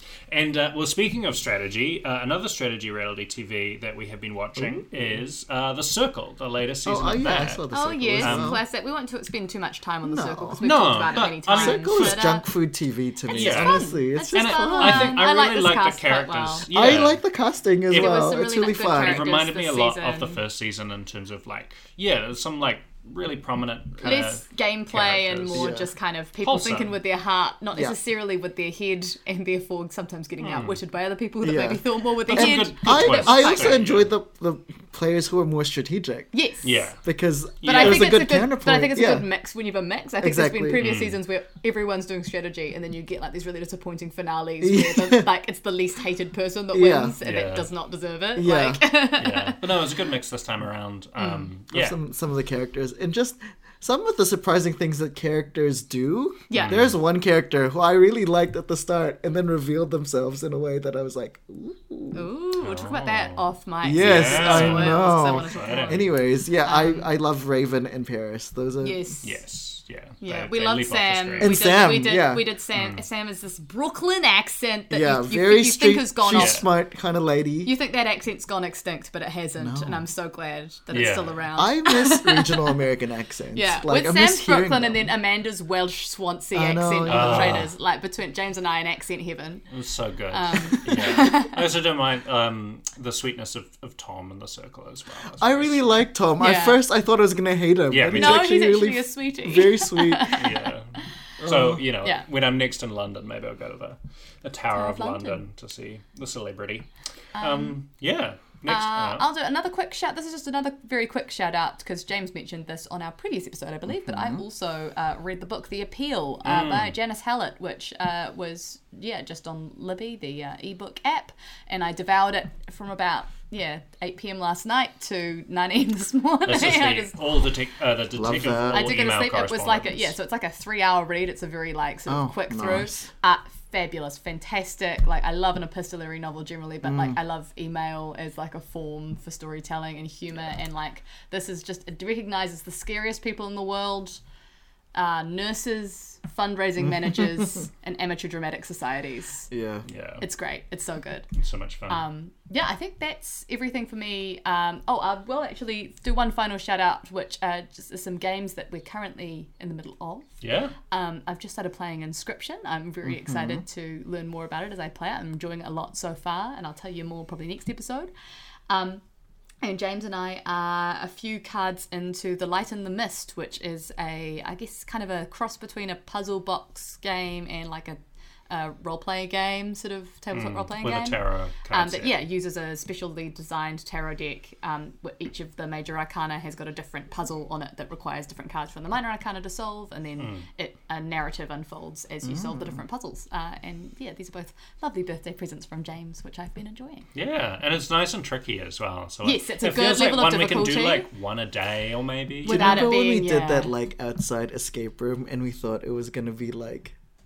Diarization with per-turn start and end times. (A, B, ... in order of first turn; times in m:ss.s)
0:00.3-0:07.6 A
0:04.6-0:05.2 B
0:06.8-0:08.6 B
0:07.7-0:12.4 C
0:08.2-0:08.6 A
0:10.0-0:10.6 B
0:10.6-0:12.3 A
0:11.5-0:15.2 B
0:13.3-0:17.0 C
0:13.3-0:17.2 A
0:16.7-0:19.2 B
0:17.9-0:20.4 C
0:17.9-0:18.4 A
0:18.9-0:25.6 A
0:24.0-0:33.8 C
0:25.5-0:25.9 B
0:26.4-0:27.0 A
0:30.4-0:30.8 A
0:31.4-0:36.3 B
0:32.2-0:34.1 A
0:36.3-0:36.9 C
0:36.6-0:37.0 A
0:37.0-0:39.3 B
0:37.6-0:38.1 A
0:37.6-0:49.6 C
0:40.2-0:41.0 B
0:40.8-0:41.2 A
0:44.6-0:45.3 B
0:46.7-0:47.2 B
0:47.2-0:47.7 A
0:48.4-0:48.8 B
0:49.2-0:52.0 A
0:51.2-0:51.5 C
0:51.7-1:02.3 B
0:56.5-0:56.8 C
0:56.6-0:57.0 A
1:02.1-1:06.1 C
1:02.6-1:06.1 A
1:03.8-1:09.0 B
1:06.6-1:07.1 C
1:08.8-1:09.4 C
1:09.2-1:11.6 A
1:10.2-1:16.7 C
1:11.4-1:12.4 B
1:12.7-1:13.0 A
1:14.9-1:17.7 B
1:16.3-1:16.6 A
1:17.6-1:22.7 C
1:19.6-1:20.0 B
1:20.9-1:21.4 A
1:21.6-1:25.1 B
1:23.5-1:29.6 C
1:26.5-1:27.7 B
1:27.1-1:27.7 A
1:29.7-1:36.1 A
1:30.3-1:31.6 C
1:35.4-1:40.4 B
1:36.4-1:36.8 C
1:37.9-1:38.5 A
1:38.1-1:40.6 C
1:40.3-1:46.9 A
1:41.4-1:41.8 B
1:44.8-1:45.4 C
1:47.4-1:47.8 C
1:47.4-1:49.3 A
1:48.6-2:07.2 C
1:53.9-1:54.4 B
1:56.4-1:57.0 A
2:06.5-2:10.1 A
2:08.1-2:08.9 B
2:08.7-2:24.2 C
2:12.1-2:13.1 B
2:16.8-2:17.2 B
2:25.0-2:29.5 C
2:29.5-2:29.8 B
2:29.9-2:30.2 A
2:30.2-2:31.3 C
2:31.3-2:32.0 A
2:31.9-2:40.3 C
2:40.4-2:40.8 A
2:40.9-2:48.1 C
2:43.1-2:43.6 B
2:48.7-2:49.0 C
2:49.6-3:01.2 C
3:00.3-3:02.2 A
3:01.7-3:17.1 C
3:10.2-3:10.5 A
3:12.2-3:12.8 B
3:17.2-3:22.9 A
3:19.2-3:21.1 C
3:22.4-3:27.0 B
3:22.4-3:23.7 C